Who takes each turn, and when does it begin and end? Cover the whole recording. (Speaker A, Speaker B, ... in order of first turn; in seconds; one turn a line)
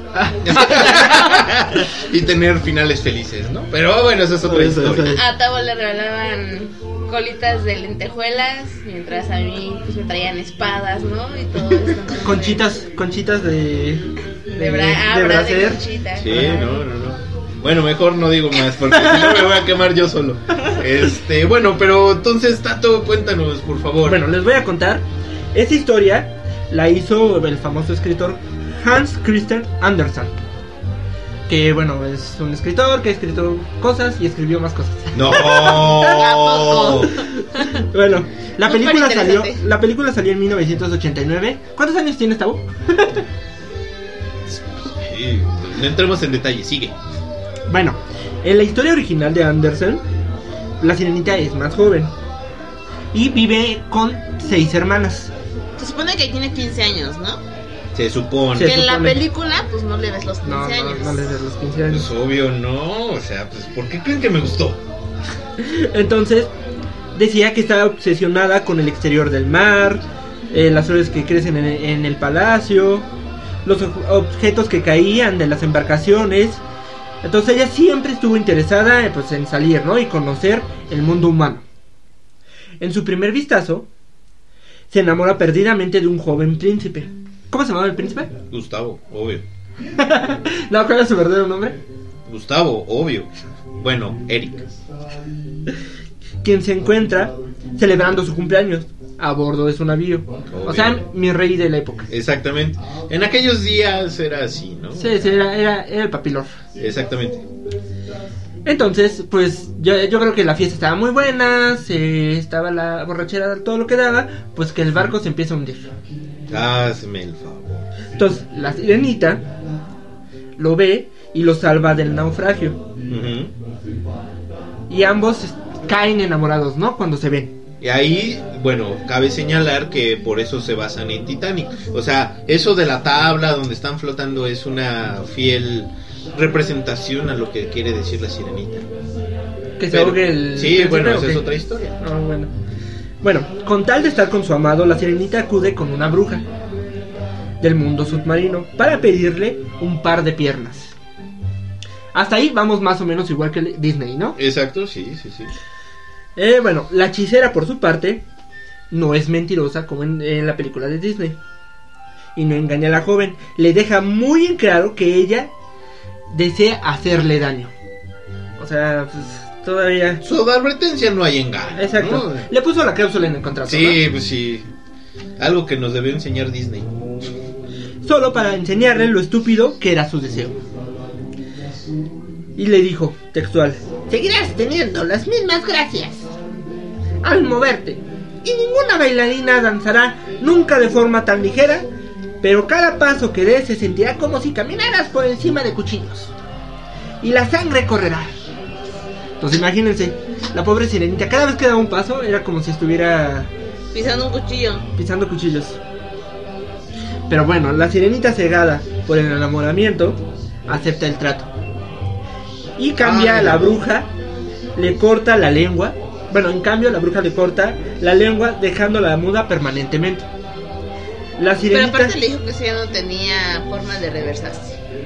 Speaker A: 0.1-1.3
Speaker B: 0.4-5.2
Speaker A: 4.4-5.2
Speaker C: 5.1-12.6
Speaker A: 12.2-16.6
Speaker C: 14.5-16.8
Speaker B: 16.1-24.2
Speaker A: 24.0-30.3
Speaker A: 31.5-36.5
Speaker B: 35.1-37.2
Speaker D: 36.0-37.7
Speaker A: 37.1-43.2
Speaker D: 38.6-39.6
Speaker B: 44.5-47.0
Speaker A: 47.7-50.0
Speaker A: 50.8-52.1
Speaker A: 53.1-55.3
Speaker D: 55.8-57.4
Speaker B: 57.9-58.7
Speaker A: 58.5-59.2
Speaker D: 58.5-61.3
Speaker A: 60.4-62.1
Speaker B: 61.9-64.8
Speaker A: 65.6-66.5
Speaker A: 67.1-73.1
Speaker A: 73.6-76.6
Speaker A: 77.2-81.6
Speaker A: 82.8-83.9
Speaker A: 84.9-88.3
Speaker B: 88.5-89.4
Speaker A: 90.0-91.8
Speaker B: 92.2-94.7
Speaker A: 96.4-102.1
Speaker B: 100.5-101.0
Speaker B: 102.1-105.4
Speaker A: 105.0-106.5
Speaker B: 106.8-107.5
Speaker A: 108.6-115.9
Speaker B: 116.5-117.8
Speaker A: 118.2-119.5
Speaker A: 120.6-122.8
Speaker B: 123.1-123.5
Speaker A: 124.9-127.5
Speaker B: 127.8-138.9
Speaker A: 139.8-142.5
Speaker B: 139.9-142.0
Speaker A: 143.2-146.4
Speaker A: 147.6-150.9
Speaker A: 152.1-154.4
Speaker B: 154.4-155.5
Speaker A: 156.3-158.2
Speaker A: 158.9-161.4
Speaker A: 162.3-165.5
Speaker A: 166.3-167.7
Speaker A: 168.6-170.2
Speaker B: 170.2-172.5
Speaker A: 171.8-174.0
Speaker B: 173.7-174.7
Speaker B: 175.4-176.9
Speaker A: 178.0-180.6
Speaker A: 182.6-186.3
Speaker A: 187.2-191.9
Speaker A: 192.4-196.3
Speaker A: 197.2-198.3
Speaker A: 199.4-203.5
Speaker D: 203.9-204.9
Speaker A: 204.9-205.8
Speaker A: 207.3-211.5
Speaker A: 212.8-214.1
Speaker B: 213.0-213.8
Speaker A: 214.8-220.3
Speaker A: 221.4-222.2
Speaker D: 221.7-224.8